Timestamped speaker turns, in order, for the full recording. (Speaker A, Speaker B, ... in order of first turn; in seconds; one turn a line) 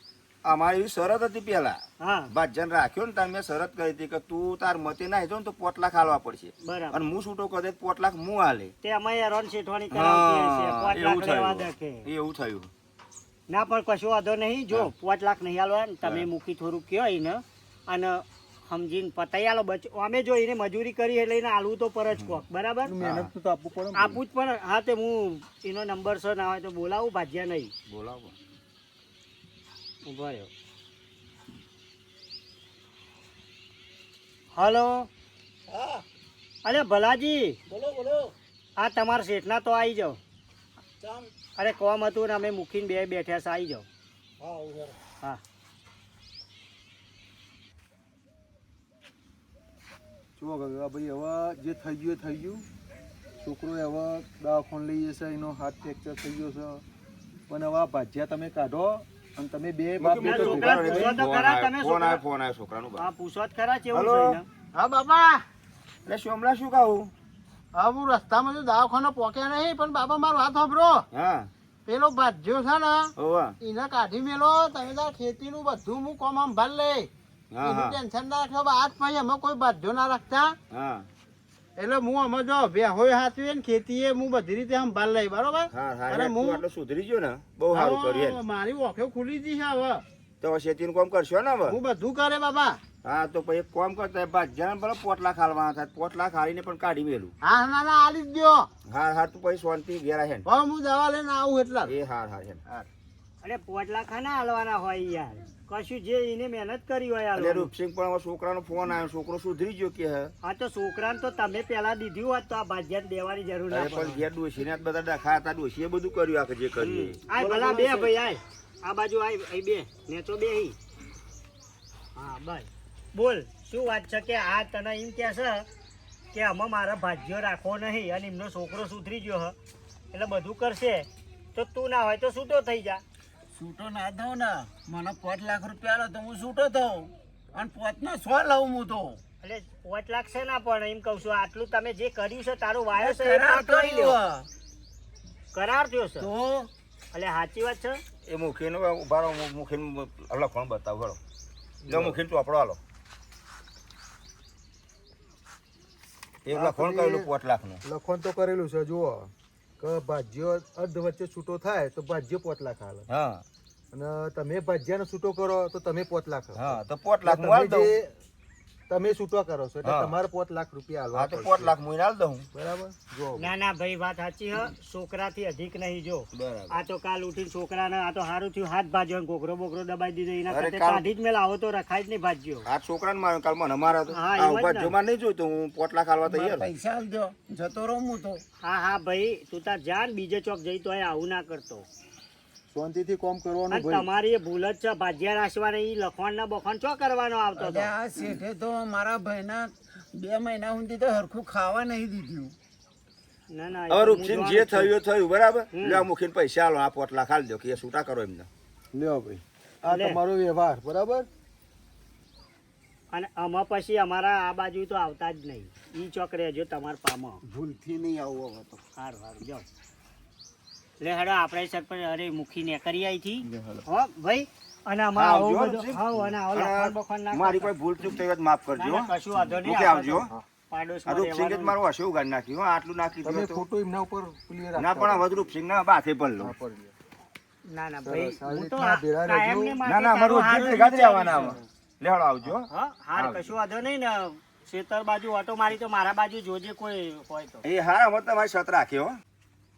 Speaker A: 0.4-1.8
Speaker B: 2.0-2.3
Speaker A: 2.3-8.7
Speaker B: 6.6-7.0
Speaker B: 8.8-12.1
Speaker A: 9.9-12.7
Speaker B: 13.5-22.9
Speaker A: 22.1-22.4
Speaker C: 22.8-24.2
Speaker A: 23.0-23.3
Speaker B: 23.9-27.7
Speaker A: 27.9-28.3
Speaker B: 30.1-30.5
Speaker B: 34.5-35.1
Speaker D: 35.7-36.0
Speaker B: 36.6-37.6
Speaker D: 37.7-38.3
Speaker B: 38.8-40.2
Speaker D: 41.0-41.3
Speaker B: 41.6-43.9
Speaker D: 44.4-44.9
Speaker C: 50.4-52.6
Speaker C: 53.4-56.8
Speaker C: 57.5-61.2
Speaker A: 60.0-63.1
Speaker B: 60.2-62.2
Speaker B: 63.0-64.4
Speaker A: 63.9-64.4
Speaker E: 64.9-65.4
Speaker A: 66.0-67.1
Speaker E: 67.8-70.6
Speaker A: 71.1-71.5
Speaker A: 73.2-73.5
Speaker E: 73.7-76.9
Speaker A: 77.5-78.0
Speaker E: 78.1-80.4
Speaker A: 80.7-81.1
Speaker E: 81.8-85.6
Speaker A: 85.7-88.4
Speaker E: 88.5-90.0
Speaker A: 90.4-91.8
Speaker E: 91.9-92.8
Speaker A: 93.0-97.3
Speaker E: 97.5-98.6
Speaker A: 98.9-100.5
Speaker E: 100.6-101.7
Speaker A: 101.8-102.9
Speaker B: 103.4-107.7
Speaker A: 107.3-110.3
Speaker B: 110.4-114.2
Speaker A: 113.7-117.2
Speaker B: 116.8-120.8
Speaker D: 117.3-118.1
Speaker B: 122.2-125.7
Speaker B: 126.3-129.5
Speaker B: 130.1-133.0
Speaker D: 133.5-139.2
Speaker B: 139.4-144.2
Speaker D: 143.0-144.5
Speaker B: 145.5-146.3
Speaker D: 146.2-146.7
Speaker B: 147.1-148.0
Speaker A: 148.2-151.2
Speaker C: 151.8-152.2
Speaker A: 151.8-152.8
Speaker A: 156.4-157.8
Speaker C: 156.5-157.3
Speaker C: 157.8-163.1
Speaker A: 163.1-163.4
Speaker C: 163.9-168.1
Speaker A: 166.5-167.9
Speaker C: 168.9-171.7
Speaker A: 169.8-170.1
Speaker A: 171.1-172.5
Speaker C: 172.5-173.5
Speaker B: 173.3-182.7
Speaker A: 176.3-176.8
Speaker A: 180.5-181.1
Speaker A: 182.7-186.7
Speaker B: 184.1-184.9
Speaker D: 186.2-188.4
Speaker B: 188.6-191.8
Speaker C: 192.7-194.1
Speaker B: 193.7-197.9
Speaker D: 197.6-202.5
Speaker B: 203.5-204.9
Speaker A: 203.9-208.5
Speaker B: 205.7-206.0
Speaker C: 208.9-211.3
Speaker B: 209.8-210.2
Speaker B: 213.1-217.4
Speaker D: 217.4-218.8
Speaker B: 218.9-219.7
Speaker B: 221.0-227.7
Speaker A: 223.4-223.8
Speaker A: 225.1-230.3
Speaker B: 228.8-231.8
Speaker A: 231.1-233.6
Speaker C: 233.2-235.2
Speaker A: 234.8-236.5
Speaker C: 236.4-236.9
Speaker B: 237.7-241.6
Speaker C: 238.0-239.8
Speaker A: 239.8-243.5
Speaker B: 242.7-247.6
Speaker A: 247.6-249.2